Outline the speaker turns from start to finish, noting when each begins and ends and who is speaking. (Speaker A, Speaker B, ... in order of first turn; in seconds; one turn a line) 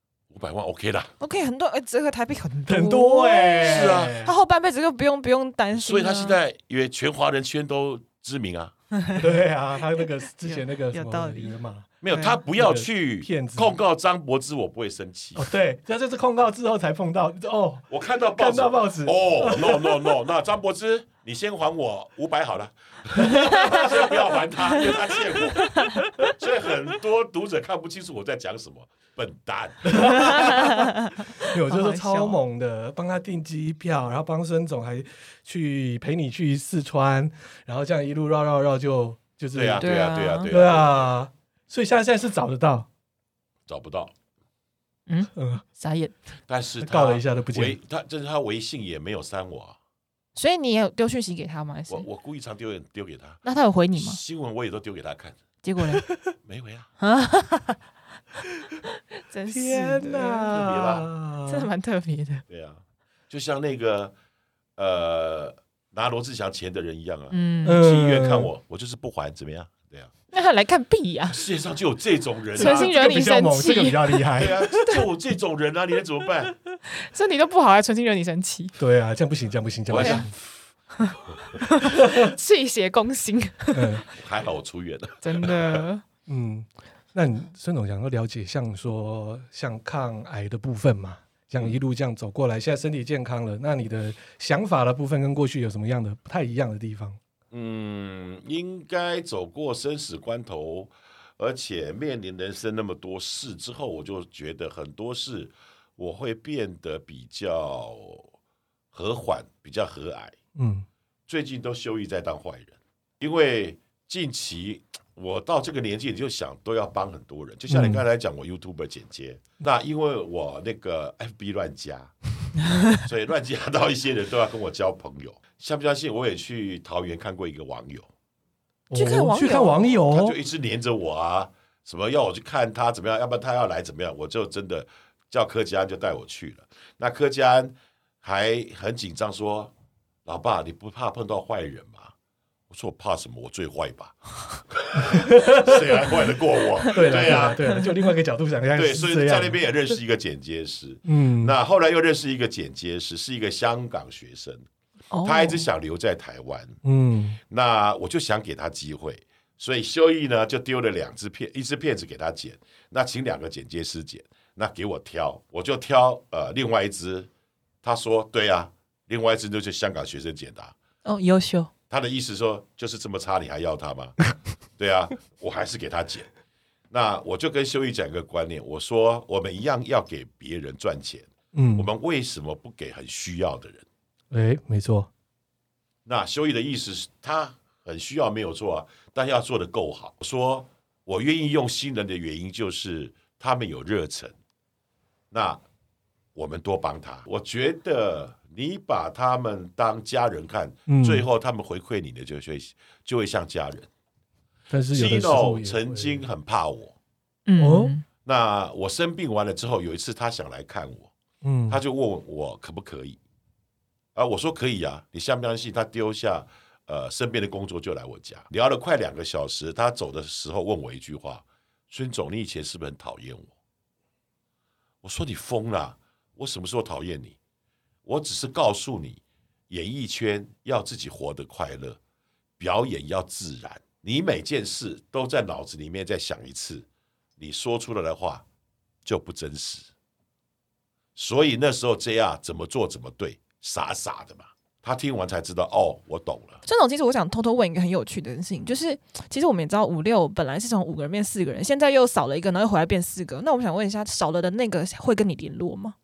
Speaker A: 0.3-1.1
Speaker B: 1.2-6.4
Speaker C: 2.7-4.3
Speaker A: 3.6-4.2
Speaker A: 5.7-8.7
Speaker B: 9.0-9.2
Speaker C: 9.2-13.8
Speaker B: 10.4-11.5
Speaker A: 12.0-15.4
Speaker C: 15.4-20.0
Speaker A: 17.9-30.6
Speaker C: 23.2-23.9
Speaker C: 29.9-30.9
Speaker B: 30.2-31.1
Speaker C: 31.4-39.9
Speaker B: 31.6-32.4
Speaker A: 39.5-41.1
Speaker B: 39.8-40.5
Speaker C: 40.5-42.9
Speaker A: 43.7-44.1
Speaker B: 45.1-46.2
Speaker C: 45.4-45.6
Speaker A: 46.5-49.8
Speaker C: 46.8-47.8
Speaker B: 50.4-52.1
Speaker A: 51.9-53.4
Speaker B: 53.4-54.2
Speaker A: 54.0-55.4
Speaker B: 55.6-56.1
Speaker A: 56.5-56.9
Speaker B: 57.0-57.8
Speaker B: 59.2-60.6
Speaker C: 59.5-61.7
Speaker A: 60.5-61.1
Speaker B: 61.5-62.4
Speaker A: 62.5-64.1
Speaker A: 64.8-70.1
Speaker B: 67.3-67.8
Speaker C: 67.6-68.5
Speaker B: 70.3-71.4
Speaker A: 71.3-73.0
Speaker C: 72.5-74.8
Speaker B: 72.5-75.0
Speaker A: 74.3-76.5
Speaker B: 76.9-78.7
Speaker C: 78.8-80.3
Speaker A: 79.9-80.4
Speaker B: 80.0-80.2
Speaker B: 81.0-84.0
Speaker C: 81.9-82.3
Speaker C: 83.7-84.0
Speaker A: 84.1-85.8
Speaker B: 85.2-86.0
Speaker C: 86.3-97.2
Speaker A: 97.5-108.3
Speaker A: 108.9-110.4
Speaker C: 110.5-110.9
Speaker A: 111.3-122.1
Speaker C: 117.7-118.0
Speaker A: 123.0-128.1
Speaker C: 128.9-130.4
Speaker B: 128.9-129.9
Speaker A: 130.1-139.7
Speaker A: 140.2-142.1
Speaker A: 142.7-147.6
Speaker C: 144.9-145.8
Speaker B: 146.8-147.9
Speaker C: 146.9-149.6
Speaker A: 148.7-154.7
Speaker C: 151.1-151.6
Speaker B: 155.1-155.7
Speaker A: 155.2-156.8
Speaker C: 156.8-157.4
Speaker A: 157.4-167.3
Speaker A: 167.8-170.7
Speaker B: 171.1-171.7
Speaker A: 171.9-174.2
Speaker A: 174.8-176.3
Speaker A: 176.9-183.9
Speaker C: 181.5-181.9
Speaker C: 184.3-185.1
Speaker A: 186.1-194.4
Speaker A: 195.3-195.6
Speaker A: 196.3-203.9
Speaker C: 200.9-201.3
Speaker C: 204.7-206.2
Speaker A: 204.9-206.9
Speaker B: 207.5-208.1
Speaker C: 207.6-207.9
Speaker A: 208.2-211.1
Speaker C: 211.4-211.8
Speaker A: 211.7-213.2
Speaker A: 214.1-223.5
Speaker A: 225.0-227.4
Speaker A: 228.1-232.0
Speaker A: 232.6-236.9
Speaker A: 237.4-238.4
Speaker A: 239.1-239.9
Speaker A: 241.2-246.6
Speaker B: 246.6-255.9